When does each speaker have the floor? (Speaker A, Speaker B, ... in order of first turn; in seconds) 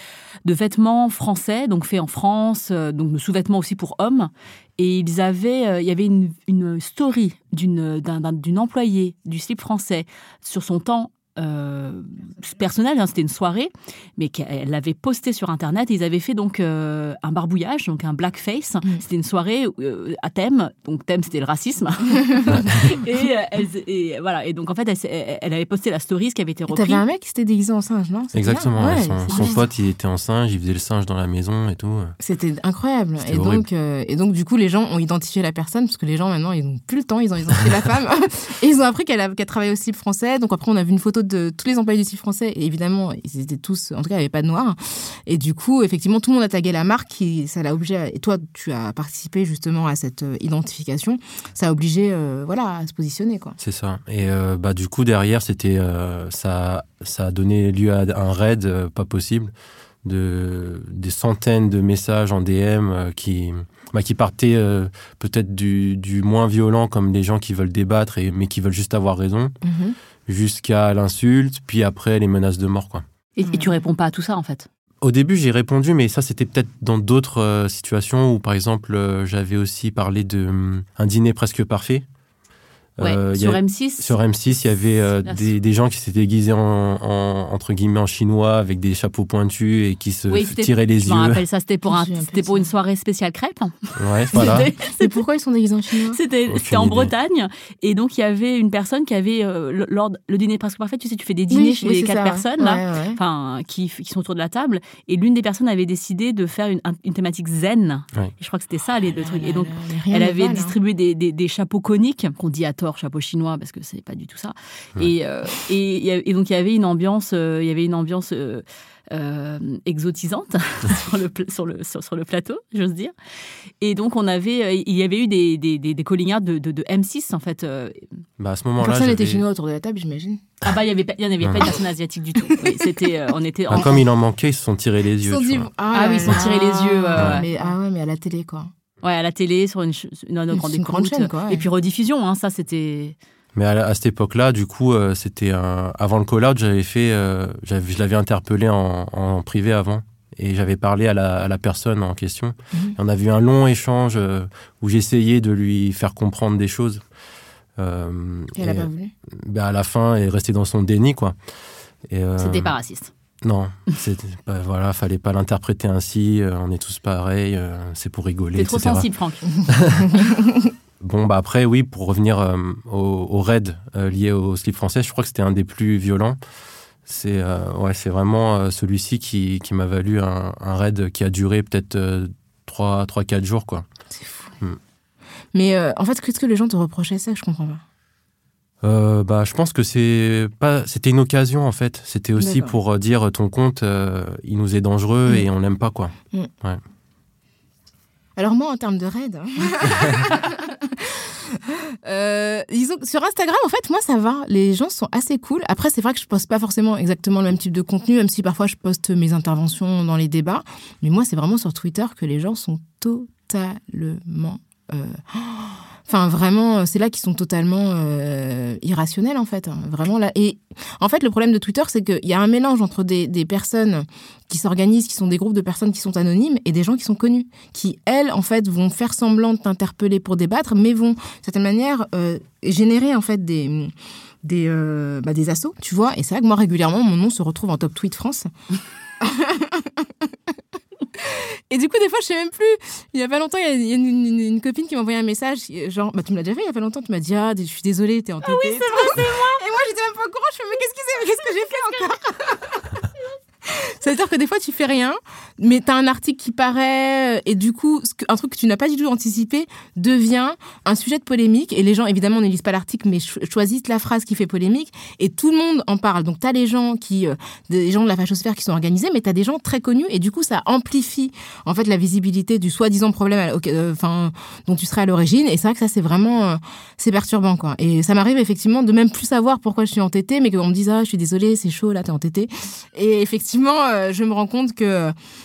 Speaker A: 0.5-27.0, 73.3-74.7, 83.0-84.1, 90.3-95.2, 96.1-123.1, 123.8-128.1, 130.6-134.0, 135.9-137.5, 139.0-143.2, 162.4-163.1, 168.6-169.5, 248.4-249.6
Speaker B: 26.7-29.6, 32.2-53.6, 69.6-70.0, 91.9-92.7, 94.3-96.2, 101.5-103.2, 109.1-110.8, 128.8-130.5, 132.5-133.1, 135.2-138.7, 140.5-141.7, 158.6-159.1, 184.1-184.5, 185.5-187.8, 192.4-192.8, 198.4-238.5, 239.2-240.3, 241.2-253.0, 253.6-285.1
Speaker C: 28.3-32.1, 33.2-33.6, 53.6-59.5, 60.0-69.5, 70.3-73.0, 75.0-82.0, 83.0-91.4, 94.0-94.7, 96.5-97.1, 128.4-129.4, 131.4-131.7, 133.7-135.7, 137.2-137.4, 143.6-157.0, 157.8-161.3, 162.1-162.7, 163.4-169.1, 169.6-170.3, 171.0-176.4, 177.1-183.8, 188.8-196.8